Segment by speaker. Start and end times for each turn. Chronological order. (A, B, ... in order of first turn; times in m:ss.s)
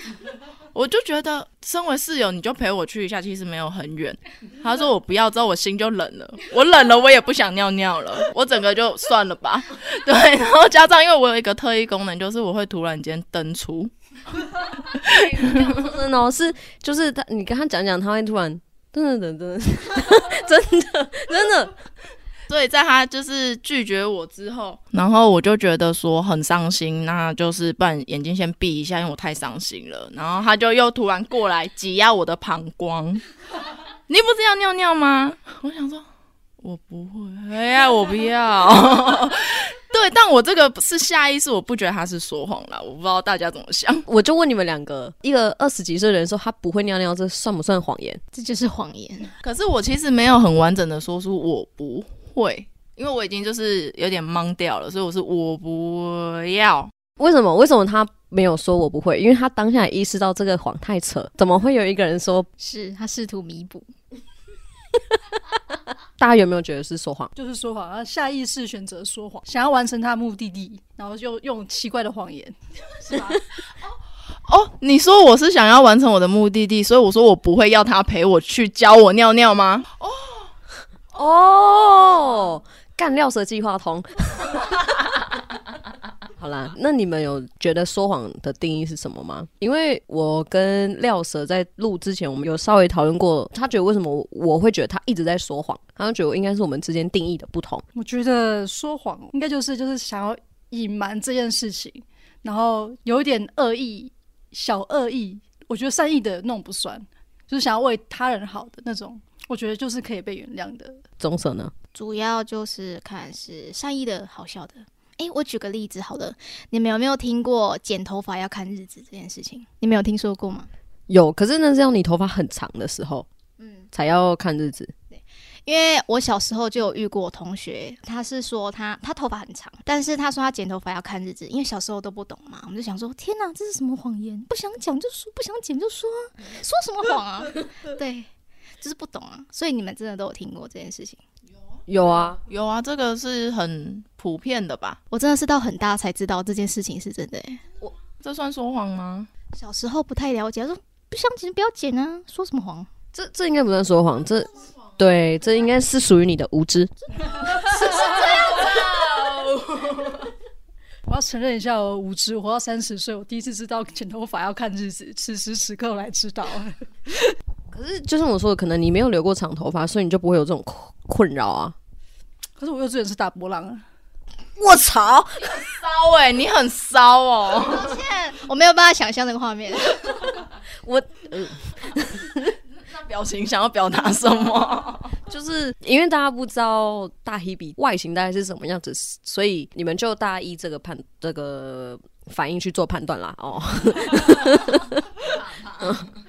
0:00.7-0:13.9 A
0:14.8-0:15.8 A
0:15.0-0:21.7 B
0:22.5-0:33.2 A
0:34.1-0:36.1 A
0:36.6-0:44.1 A
0:44.1-0:48.2 B
0:48.3-0:49.3 C
0:49.4-0:56.9 A
0:57.2-1:02.5 B
1:02.6-1:03.9 C
1:06.2-1:07.3 B
1:07.4-1:13.4 D
1:14.5-1:20.5 A
1:21.2-1:25.1 B
1:26.4-1:37.8 B
1:38.0-1:51.0 D
1:51.2-1:51.7 B
1:51.9-2:00.7 C
2:01.1-2:03.3 B
2:03.6-2:03.9 C
2:03.9-2:04.9 B
2:05.1-2:18.3 C
2:18.8-2:21.2 C
2:21.9-2:22.4 B
2:22.4-2:25.0 A
2:25.1-2:27.6 C
2:28.1-2:29.3 A
2:29.5-2:32.9 C
2:33.1-2:36.9 B
2:37.4-2:40.3 A
2:41.1-2:47.3 D
2:47.7-2:51.8 B
2:52.6-2:53.8 D
2:54.6-2:55.5 B
2:55.5-2:58.0 A
2:57.7-3:00.3 C
3:00.8-3:02.6 B
3:02.8-3:05.2 A
3:05.3-3:15.1 B
3:15.8-3:16.1 B